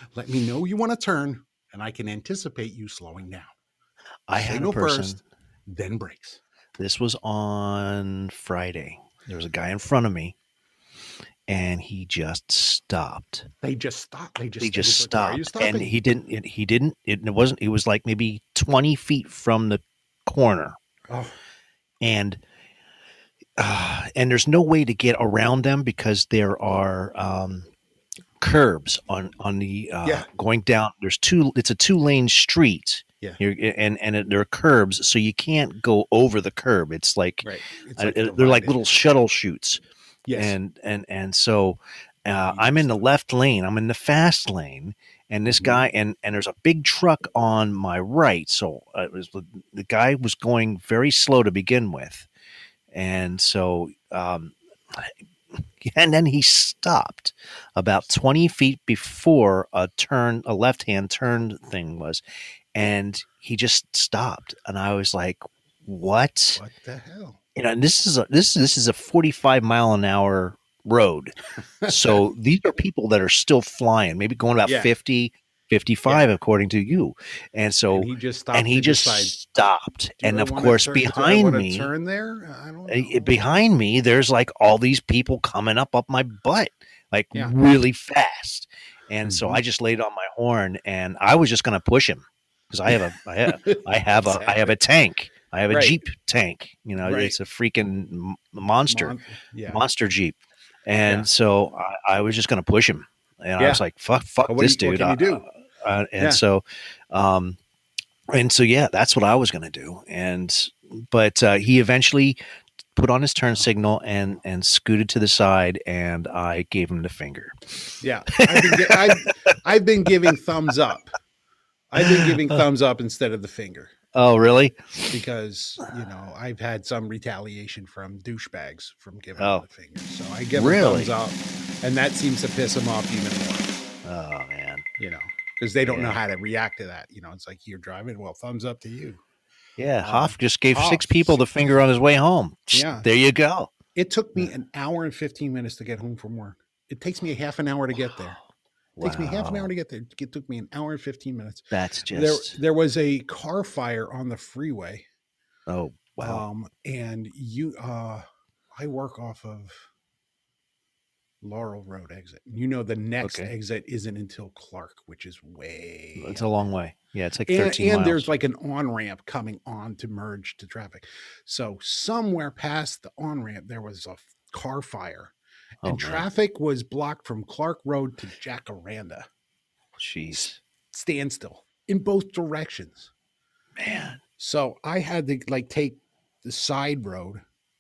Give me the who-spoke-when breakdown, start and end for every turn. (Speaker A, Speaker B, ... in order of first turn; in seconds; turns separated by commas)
Speaker A: 0.1-3.5, Speaker B: 4.3-5.2, Speaker A: 4.3-6.4, Speaker B: 6.8-10.3, Speaker B: 11.5-13.5, Speaker A: 13.6-15.9, Speaker B: 14.6-20.8, Speaker B: 22.0-22.4, Speaker B: 23.6-27.7, Speaker B: 28.4-39.8, Speaker A: 37.4-38.9, Speaker A: 40.3-40.6, Speaker B: 40.4-52.3, Speaker A: 42.5-43.1, Speaker A: 45.6-45.9, Speaker B: 52.9-55.1, Speaker B: 55.8-62.2, Speaker B: 62.8-66.6, Speaker A: 66.6-67.4, Speaker B: 67.6-71.3, Speaker A: 71.6-72.2, Speaker B: 71.9-81.9, Speaker A: 74.6-75.0, Speaker A: 77.9-79.4, Speaker A: 80.2-83.4, Speaker B: 82.9-99.2, Speaker A: 89.2-89.6, Speaker A: 92.9-94.8, Speaker A: 95.7-96.0, Speaker A: 97.0-97.4, Speaker A: 98.9-99.8, Speaker B: 99.7-107.6, Speaker A: 103.6-103.8, Speaker A: 104.5-105.5, Speaker B: 108.3-112.4, Speaker B: 112.9-117.5, Speaker A: 118.0-121.1, Speaker B: 118.4-119.4, Speaker A: 121.9-124.0, Speaker B: 122.0-122.6, Speaker B: 124.2-125.1, Speaker A: 125.1-133.7, Speaker B: 129.4-129.7, Speaker B: 130.5-131.2, Speaker B: 134.1-134.8, Speaker A: 135.0-139.2, Speaker B: 135.8-136.2, Speaker B: 139.8-143.8, Speaker A: 140.0-141.4, Speaker A: 142.7-143.1, Speaker A: 143.9-148.4, Speaker B: 147.9-148.4, Speaker B: 149.0-149.7, Speaker A: 149.0-155.1, Speaker B: 151.7-152.6, Speaker B: 155.7-156.4, Speaker A: 156.2-158.2, Speaker A: 158.8-159.8, Speaker A: 161.4-166.5, Speaker B: 163.2-163.5, Speaker B: 166.2-168.3, Speaker A: 167.5-179.2, Speaker B: 175.8-176.3, Speaker B: 180.0-180.6, Speaker A: 180.3-183.1, Speaker B: 183.8-184.2, Speaker A: 184.4-187.4